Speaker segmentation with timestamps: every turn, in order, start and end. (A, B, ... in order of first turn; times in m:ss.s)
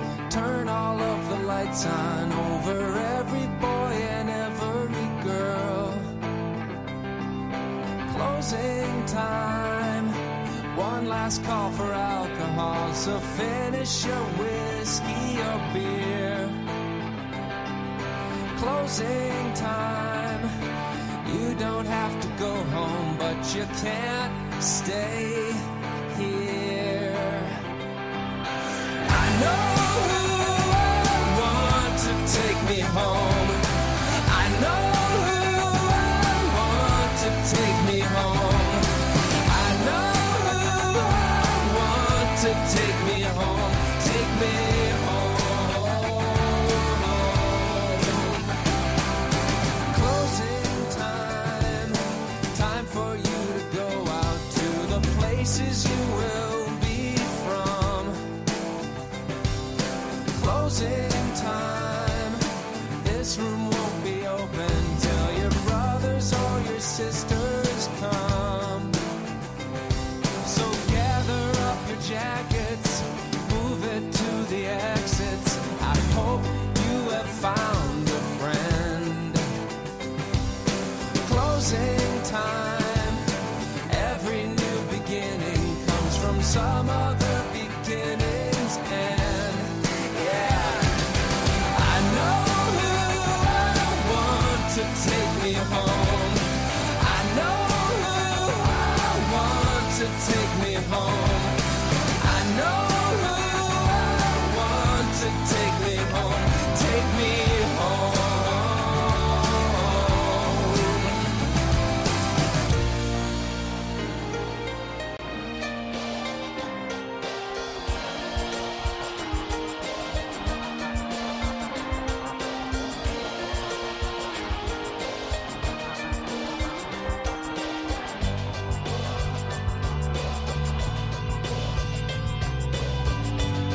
0:00.3-0:06.1 A
0:08.1-0:16.6 A
0:18.5-0:20.5 A
0:21.2-0:27.6 A
0:29.1-0:48.4 A
0:49.9-0:52.0 A
0:52.5-0:58.2 A
1:00.3-1:02.4 A
1:03.0-1:09.0 A
1:10.4-1:19.5 A
1:21.2-1:23.2 A
1:23.9-1:31.0 A
1:31.7-1:41.6 A
1:42.2-1:51.2 A